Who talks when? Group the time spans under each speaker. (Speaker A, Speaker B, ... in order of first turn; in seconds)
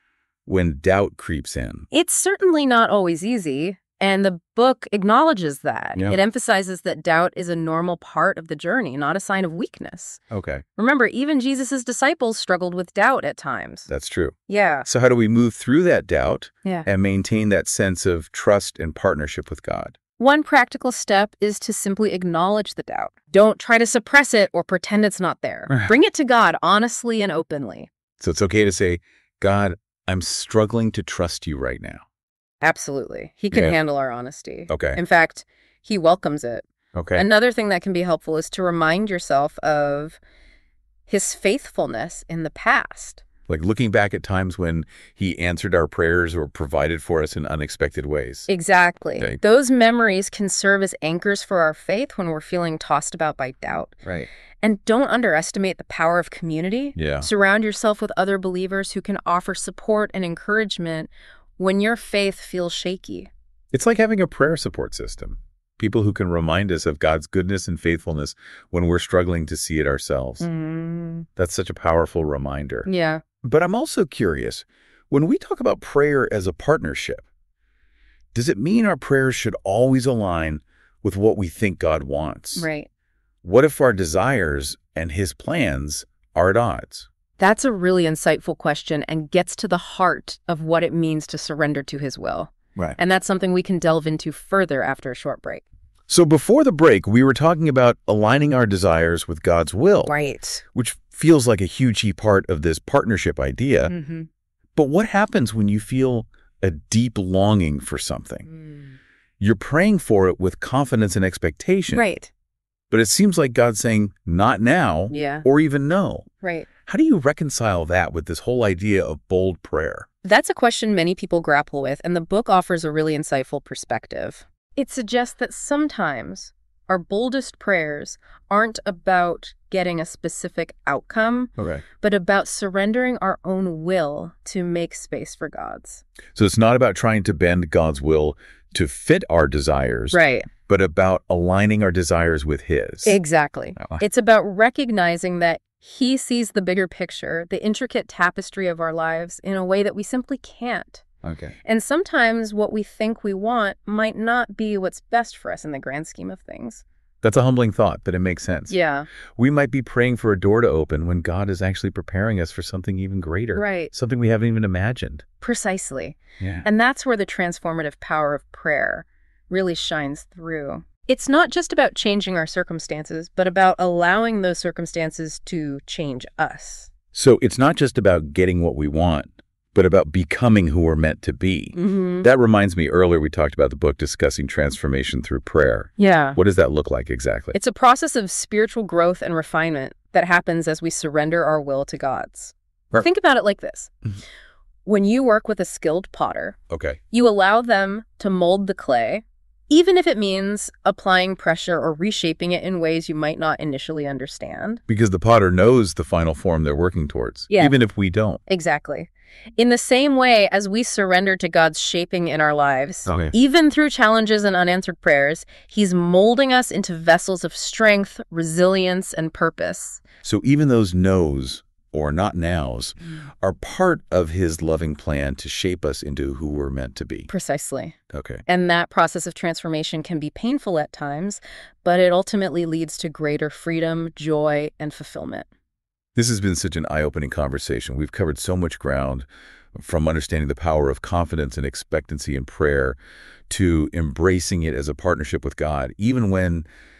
Speaker A: 0.5-1.9, 6.0-6.2, 10.3-10.6, 13.9-14.3, 14.9-20.0, 25.7-25.9, 28.2-32.0, 33.5-33.8, 34.7-35.0, 37.0-37.2, 43.5-48.5, 54.0-54.3, 57.0-57.3, 63.7-70.5, 71.4-72.9, 73.4-77.2, 78.3-82.7, 83.4-87.1, 96.1-100.2, 100.7-103.9, 104.8-108.5, 109.4-112.0, 112.9-116.3, 116.9-120.1, 131.6-131.8, 136.3-143.2, 143.8-144.0, 151.2-151.6, 157.2-158.8, 159.4-165.2, 166.4-166.7, 177.1-187.6, 196.7-197.0, 204.9-208.4, 213.1-213.3, 220.2-227.3, 228.1-228.4, 236.2-243.0, 243.5-246.7
Speaker B: 1.9-10.2, 10.8-13.9, 14.5-14.9, 20.2-27.9, 32.6-40.2, 41.1-43.2, 48.5-54.0, 54.6-63.3, 70.4-71.3, 72.9-73.2, 82.5-82.9, 87.4-95.6, 100.0-100.6, 103.9-104.3, 108.5-109.0, 111.9-112.3, 115.1-115.5, 116.4-116.7, 120.2-136.0, 140.1-140.5, 143.0-151.0, 151.7-156.8, 158.7-159.1, 163.5-163.9, 165.4-176.9, 181.7-182.3, 186.0-186.4, 187.5-193.9, 194.8-196.6, 197.1-204.8, 208.5-220.0, 227.3-228.0, 228.5-235.5